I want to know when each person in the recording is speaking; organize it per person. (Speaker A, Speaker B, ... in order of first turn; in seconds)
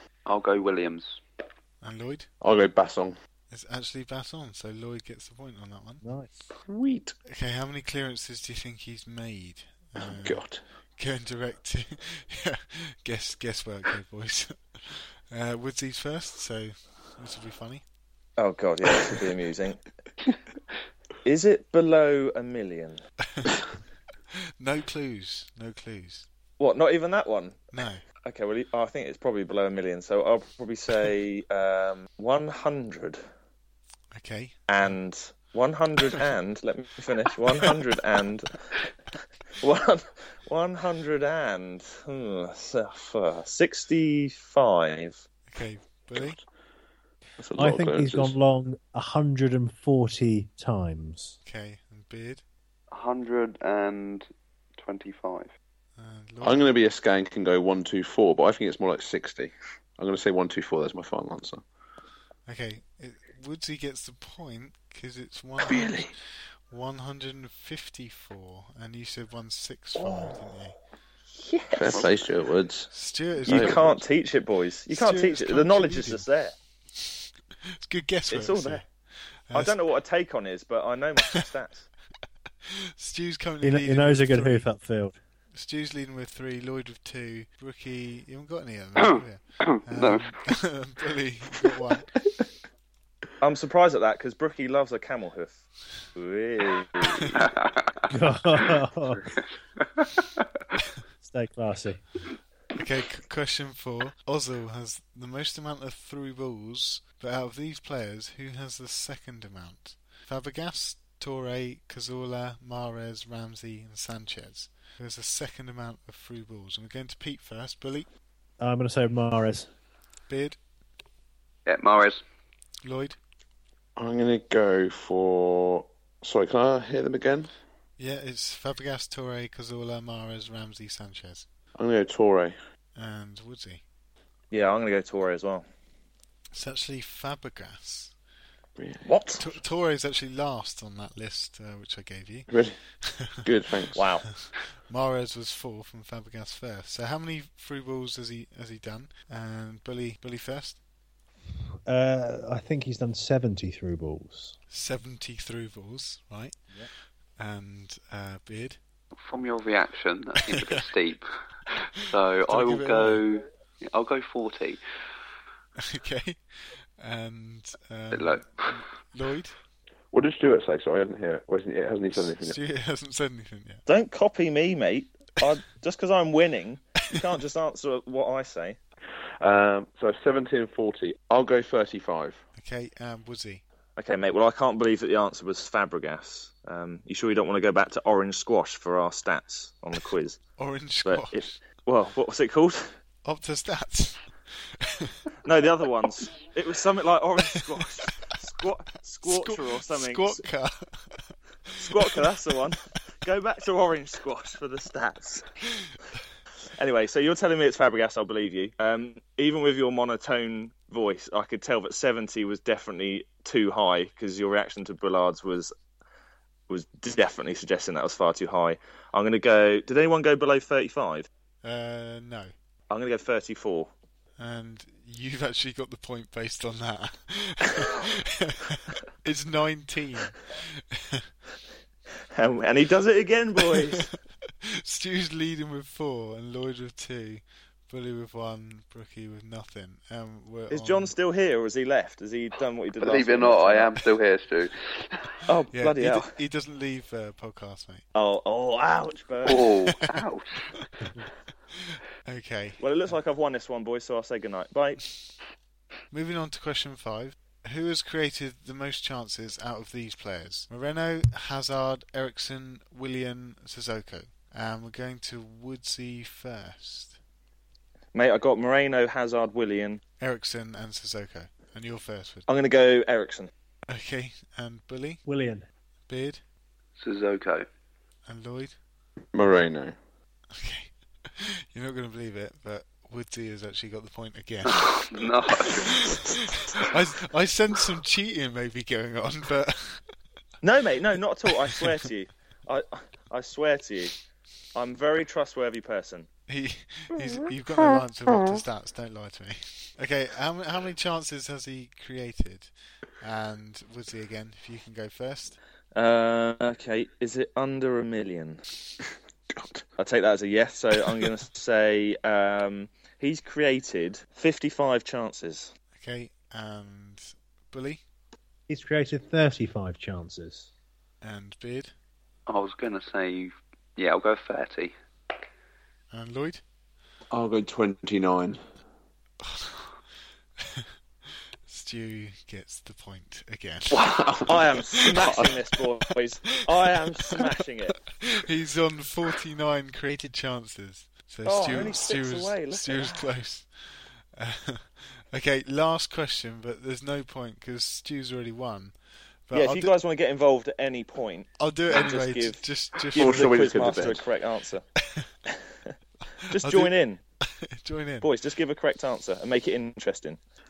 Speaker A: 0.2-1.2, 52.9-55.5, 89.0-90.4, 97.0-98.0, 99.2-100.5, 121.7-122.2, 159.2-161.2, 162.1-164.8, 168.1-168.8, 243.0-245.2, 249.4-250.8, 277.0-277.7, 284.6-286.9, 322.5-324.9
Speaker B: 1.8-2.3, 3.5-6.0, 7.3-10.4, 11.0-17.8, 23.3-23.6, 24.6-26.2, 27.7-28.0, 34.1-35.0, 45.5-46.4, 51.4-52.4, 56.0-56.6, 62.5-66.1, 66.7-70.7, 72.9-73.9, 74.9-76.2, 77.8-78.9, 79.5-79.7, 82.6-84.7, 85.5-92.1, 97.1-97.4, 102.7-118.1, 120.3-120.6, 122.8-123.2, 128.0-131.4, 132.9-133.8, 136.5-138.1, 139.4-142.5, 143.0-143.4, 144.2-150.8, 154.7-156.6, 157.3-158.8, 160.4-160.9, 162.5-163.2, 165.8-166.4, 167.0-169.5, 172.2-173.8, 182.6-183.6, 190.6-191.5, 193.2-195.2, 197.6-198.1, 199.2-202.2, 221.6-222.5, 224.4-231.2, 233.8-241.1, 245.7-248.0, 249.8-250.2, 250.8-251.1, 251.8-252.8, 256.1-267.2, 270.2-272.5, 273.9-275.2, 276.1-276.4, 278.2-278.8, 280.5-284.9, 285.8-290.0, 291.5-292.0, 296.5-305.6, 315.9-318.0, 321.2-321.9, 326.1-326.6, 329.4-329.9, 330.6-330.9, 331.7-334.1, 337.3-348.9, 349.5-349.9, 351.6-353.7, 356.4-358.3
Speaker C: 2.4-3.2, 6.7-7.2, 10.0-10.6, 47.4-48.3, 56.4-61.6, 65.6-66.1, 71.8-72.9, 73.5-74.0, 124.0-127.5, 131.8-132.5, 138.8-139.0, 142.5-142.8, 143.4-144.0, 170.1-172.6, 179.4-182.4, 279.3-279.9, 309.5-309.8, 327.3-328.6, 334.0-335.5, 353.1-354.2
Speaker D: 6.0-6.3, 47.6-51.3, 83.6-85.1, 98.1-99.2, 101.2-102.0, 118.6-119.7, 151.8-154.5, 275.2-275.6, 318.7-320.7
Speaker E: 18.4-19.8, 21.2-23.0, 26.6-27.7, 28.2-33.2, 34.7-38.8, 39.6-45.2, 71.3-72.1, 73.5-76.5, 78.3-78.8, 79.5-81.9, 93.4-95.6, 96.1-97.5, 134.5-135.6, 139.0-139.4, 143.9-144.3, 173.9-178.8, 184.0-190.4, 191.0-192.9, 195.4-200.4, 201.8-205.5, 206.8-215.7, 216.7-221.3, 222.9-223.9, 232.3-234.0, 240.7-243.9, 245.5-246.3, 248.1-249.7, 252.8-255.0, 268.1-270.0, 272.5-273.5, 290.6-294.1, 294.7-296.3, 305.9-308.6, 310.0-315.7, 334.4-338.0, 341.4-343.2, 349.5-352.6, 353.1-354.8, 356.5-357.2, 358.2-360.4